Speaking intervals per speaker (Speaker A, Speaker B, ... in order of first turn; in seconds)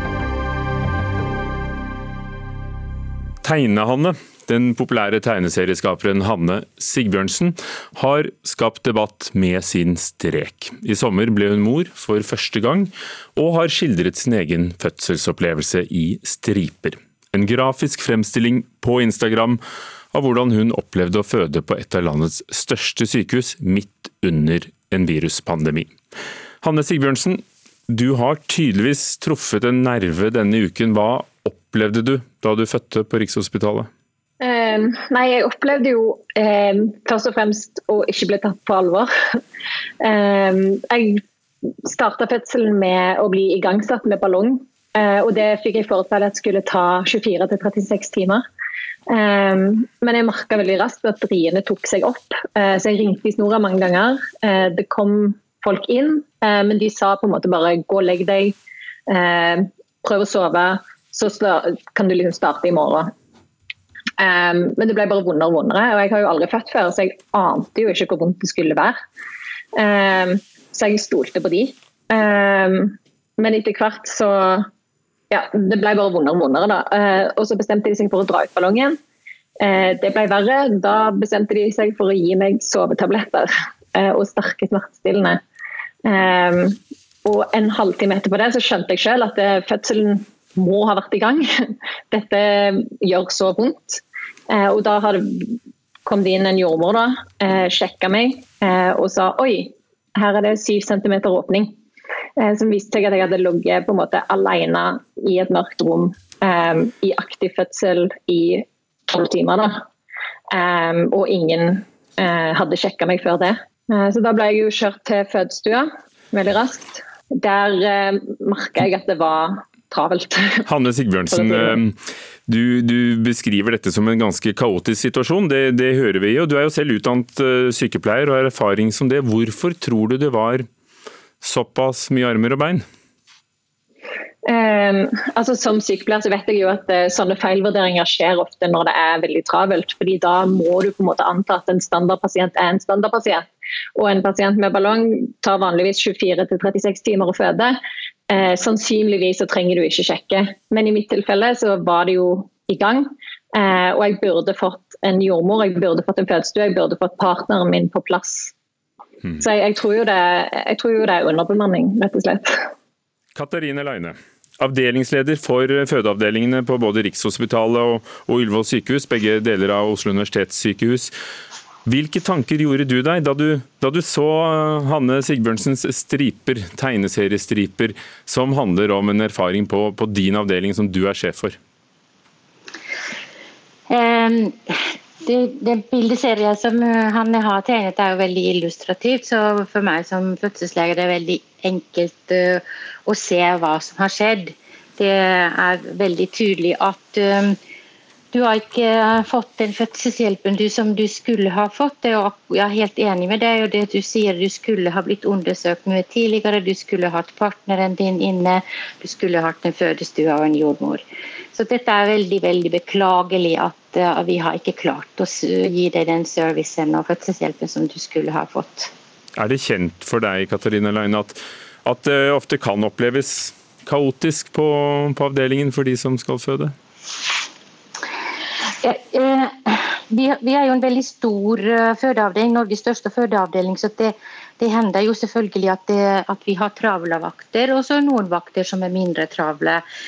Speaker A: 3.4-19.6, 20.1-25.9, 26.6-33.9, 120.7-130.7, 131.4-132.8, 163.3-171.1, 171.8-181.6, 219.4-226.7
Speaker B: 34.4-39.4, 40.0-41.2, 41.8-48.5, 49.1-58.5, 59.1-63.1, 64.2-69.0, 69.7-74.7, 75.3-79.0, 79.6-85.4, 86.0-101.8, 102.4-109.8, 110.5-120.7, 121.3-121.8, 134.4-147.8, 148.3-158.5, 159.4-162.7
Speaker C: 183.9-197.6, 198.3-211.0, 211.5-218.9, 228.8-239.8